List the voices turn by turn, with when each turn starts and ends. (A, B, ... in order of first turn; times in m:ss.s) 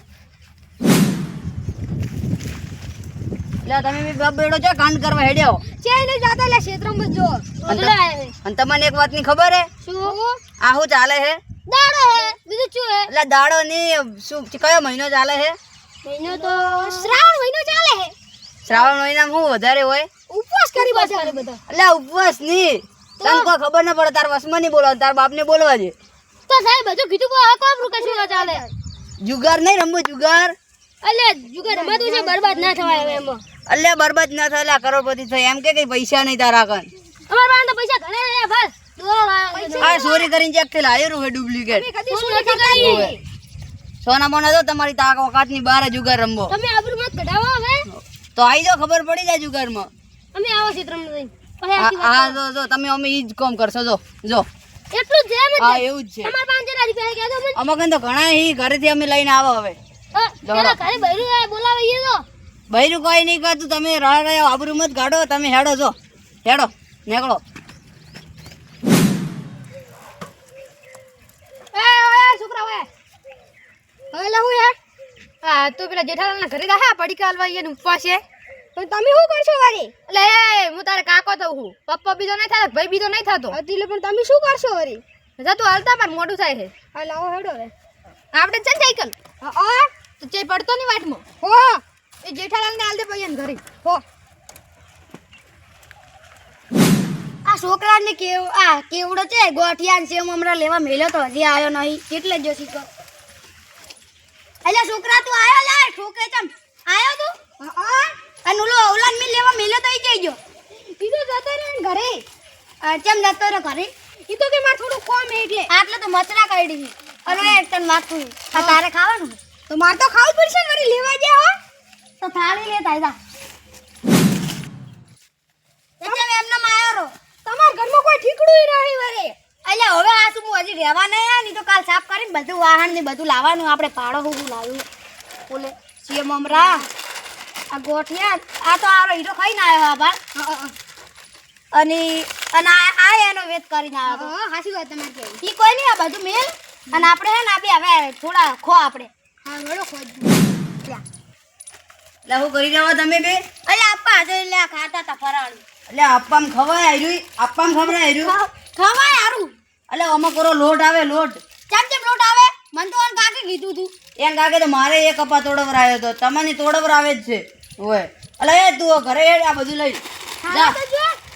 0:03.6-0:05.6 A
0:05.8-0:07.5 B
0:07.6-0:08.4 C
0:07.7-0:09.7 A
0:09.8-0:10.2 C
0:10.0-0:10.4 B
0:10.6-0:11.4 A
0:11.7-0:13.1 C
0:13.1-0:15.6 A
0:16.0-0:17.1 C
0:16.3-0:18.1 B
0:18.6-0:20.1 A
0:20.3-0:21.6 B
0:20.8-0:21.4 C
0:21.7-0:26.0 A
0:23.2-0:23.5 C
0:26.5-0:28.6 C
0:27.8-0:28.7 B
0:29.2-0:30.6 A
0:31.0-0:33.4 C
0:31.6-0:33.3 B
0:33.7-0:36.9 A
0:37.3-0:40.1 C
0:39.5-0:40.2 B
0:39.8-0:41.9 A
0:41.7-0:43.2 B
0:42.1-0:43.1 C
0:42.7-0:43.2 A
0:44.0-0:46.5 A
0:46.5-0:47.9 C
0:47.9-0:49.9 A
0:50.3-0:52.4 C
0:51.8-0:54.5 A
0:54.9-0:57.6 C
0:55.6-0:56.3 A
0:57.6-0:59.8 A
1:00.1-1:02.2 C
1:00.4-1:00.8 A
1:02.7-1:07.4 A
1:11.7-1:12.9 B
1:14.1-1:14.8 B
1:15.4-1:18.2 B
1:18.8-1:27.7 B
1:28.3-1:34.0 B
1:37.4-1:42.9 D
1:44.6-1:47.4 D
1:47.6-1:48.2 B
1:48.4-1:50.4 D
1:50.8-1:52.2 B
1:52.8-1:53.9 D
1:54.3-1:55.7 B
1:55.7-1:59.4 D
1:57.3-1:57.6 B
1:59.7-2:01.6 B
2:02.2-2:03.2 D
2:06.0-2:07.1 D
2:07.4-2:09.4 B
2:09.6-2:14.8 D
2:15.5-2:16.9 D
2:16.5-2:16.9 B
2:17.7-2:20.2 D
2:20.4-2:20.7 B
2:21.7-2:24.3 D
2:24.1-2:25.4 B
2:25.4-2:29.1 D
2:29.4-2:30.4 B
2:32.3-2:33.4 A
2:33.7-2:35.6 D
2:35.9-2:38.3 A
2:37.8-2:39.5 D
2:39.9-2:41.4 A
2:41.7-2:43.9 D
2:44.2-2:50.8 A
2:50.4-2:51.2 D